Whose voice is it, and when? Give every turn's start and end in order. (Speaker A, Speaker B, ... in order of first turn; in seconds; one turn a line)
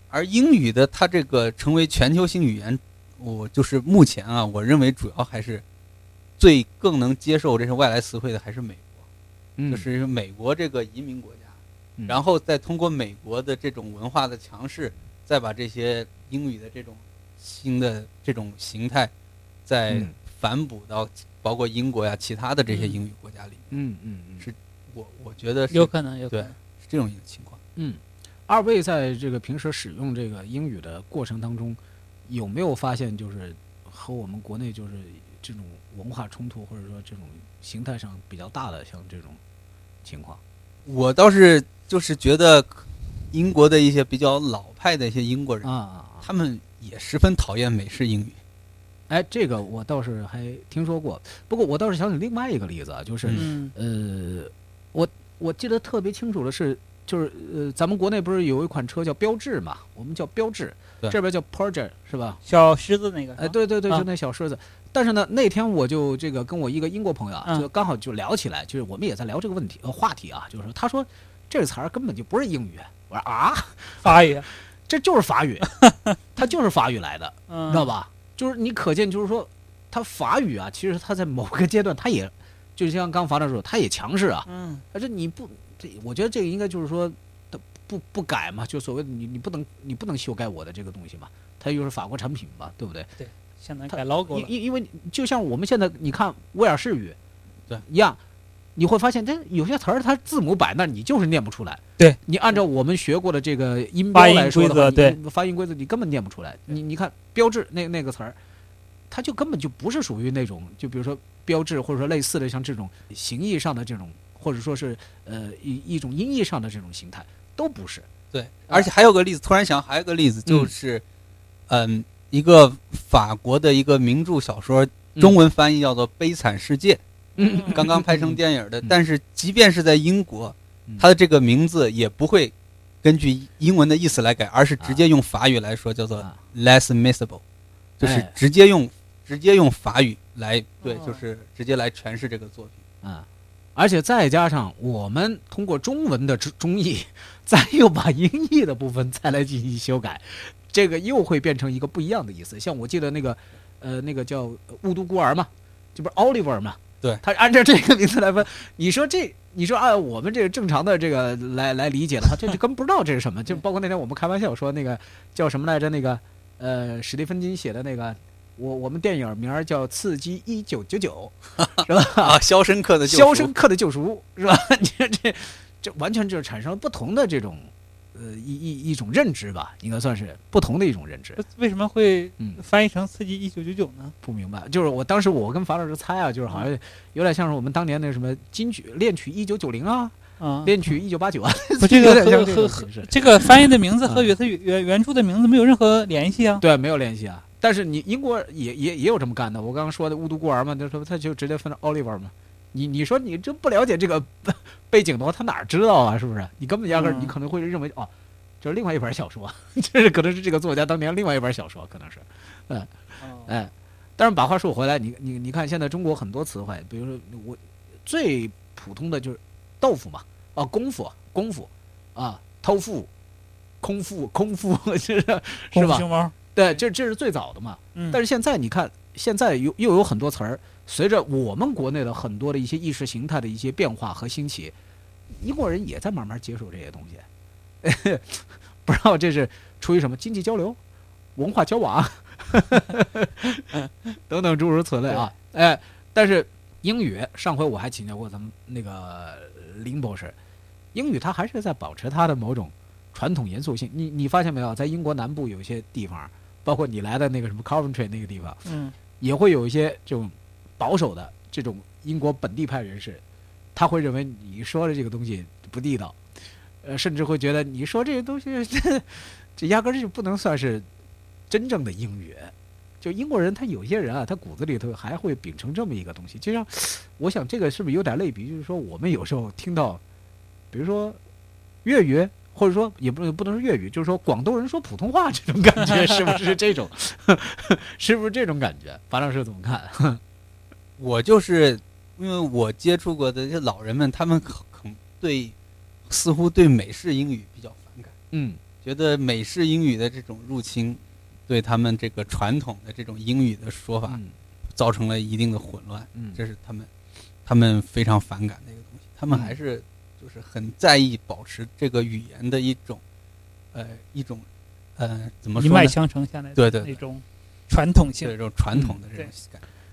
Speaker A: 0.1-5.6
Speaker A: 6.4-9.0
Speaker B: 9.6-9.9
Speaker A: 9.7-11.6
Speaker A: 12.1-19.1
Speaker A: 19.6-23.7
Speaker B: 19.9-20.1
Speaker C: 22.7-23.0
Speaker B: 23.7-24.5
Speaker A: 24.4-27.6
Speaker C: 25.7-26.5
Speaker B: 27.8-39.4
Speaker B: 40.0-40.4
Speaker A: 40.9-45.7
Speaker B: 45.6-46.3
Speaker A: 46.2-48.4
Speaker B: 49.1-62.4
Speaker C: 53.3-53.7
Speaker C: 62.4-64.1
Speaker B: 63.4-74.3
Speaker C: 74.0-74.5
Speaker B: 74.9-75.7
Speaker C: 75.8-76.1
Speaker B: 76.3-93.1
Speaker C: 77.5-77.9
Speaker C: 84.5-84.8
Speaker C: 93.2-94.5
Speaker B: 93.9-97.2
Speaker B: 97.8-98.2
Speaker B: 98.8-108.4
Speaker C: 104.1-105.2
Speaker B: 109.1-118.1
Speaker A: 118.3-121.0
Speaker B: 120.5-120.7
Speaker A: 121.7-127.0
Speaker C: 127.4-127.8
Speaker B: 127.4-128.9
Speaker A: 127.7-137.4
Speaker A: 138.0-142.8
Speaker B: 138.0-138.3
Speaker C: 140.8-141.2
Speaker B: 143.0-172.4
Speaker A: 172.2-173.5
Speaker B: 173.0-181.4
Speaker C: 181.4-184.1
Speaker B: 184.2-194.3
Speaker C: 190.4-190.7
Speaker C: 191.8-196.6
Speaker B: 196.6-223.1
Speaker C: 206.9-207.3
Speaker C: 213.2-213.5
Speaker B: 223.8-234.7
Speaker C: 225.7-226.3
Speaker C: 227.9-228.2
Speaker B: 235.3-237.2
Speaker B: 237.8-240.8
Speaker B: 241.3-243.7
Speaker B: 244.3-250.3
Speaker B: 250.9-258.6
Speaker C: 258.6-258.9
Speaker B: 259.2-263.2
Speaker B: 263.7-266.2
Speaker B: 266.8-270.9
Speaker B: 271.5-280.0
Speaker B: 280.7-281.2
Speaker B: 281.8-290.2
Speaker A: 291.0-295.5
Speaker A: 296.1-298.1
Speaker B: 298.3-298.6
Speaker A: 298.8-304.2
Speaker B: 304.1-304.3
Speaker A: 304.7-306.9
Speaker B: 306.1-306.4
Speaker A: 307.4-313.0
Speaker B: 309.3-309.6
Speaker A: 313.7-314.4
Speaker A: 315.0-315.9
Speaker C: 315.6-318.3
Speaker A: 316.5-317.0
Speaker A: 318.2-319.6
Speaker B: 318.7-319.0